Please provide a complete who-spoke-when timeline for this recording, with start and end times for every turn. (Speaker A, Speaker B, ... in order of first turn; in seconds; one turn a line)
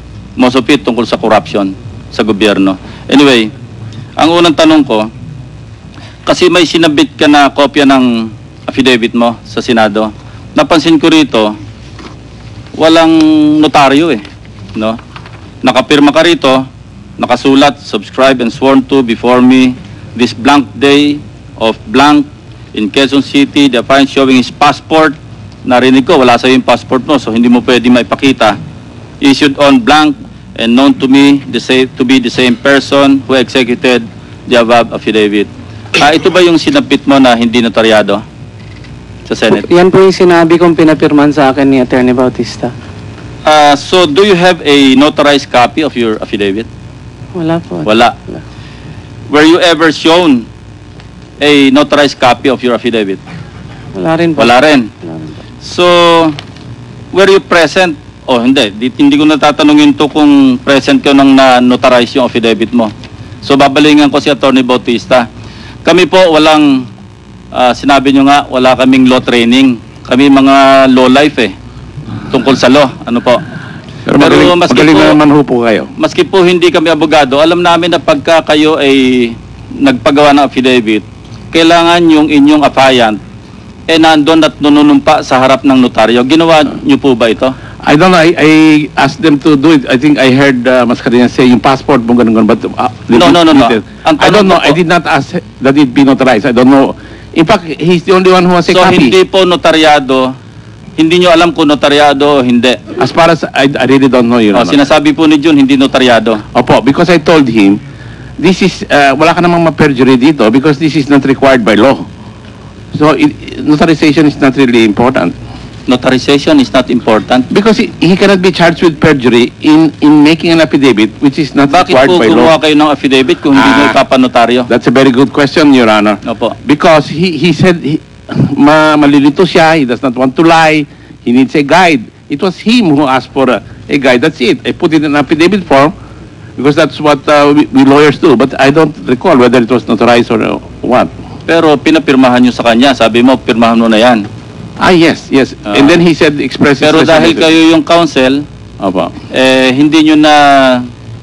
Speaker A: 0.4-3.5
Speaker A: 4.2-5.1
Speaker A: 6.2-11.5
Speaker A: 12.8-14.2
Speaker A: 15.6-16.6
Speaker A: 17.2-28.6
Speaker A: 29.2-38.2
Speaker A: 39.3-39.6
Speaker B: 39.5-42.7
Speaker A: 43.4-46.7
Speaker B: 47.4-48.4
Speaker A: 47.9-48.1
Speaker A: 49.3-50.5
Speaker A: 51.4-53.2
Speaker B: 53.9-54.5
Speaker A: 54.4-54.9
Speaker B: 55.0-55.3
Speaker A: 55.6-56.4
Speaker A: 57.1-62.9
Speaker A: 63.4-65.3
Speaker A: 65.8-66.9
Speaker A: 67.5-71.5
Speaker A: 72.3-73.4
Speaker C: 74.0-75.9
Speaker A: 74.1-75.2
Speaker A: 76.0-83.2
Speaker A: 83.9-87.5
Speaker C: 87.8-99.2
Speaker A: 93.1-94.8
Speaker A: 98.7-100.3
Speaker A: 101.0-102.8
Speaker C: 103.0-104.8
Speaker A: 104.5-106.4
Speaker C: 106.5-107.8
Speaker C: 108.4-112.1
Speaker C: 112.9-115.3
Speaker A: 115.9-117.5
Speaker C: 117.5-122.5
Speaker A: 121.7-124.7
Speaker C: 123.5-124.0
Speaker C: 124.7-135.9
Speaker A: 126.2-126.5
Speaker C: 136.6-141.1
Speaker A: 141.5-144.2
Speaker C: 144.8-147.5
Speaker A: 145.7-145.9
Speaker A: 146.8-148.4
Speaker C: 148.8-149.1
Speaker A: 149.3-150.9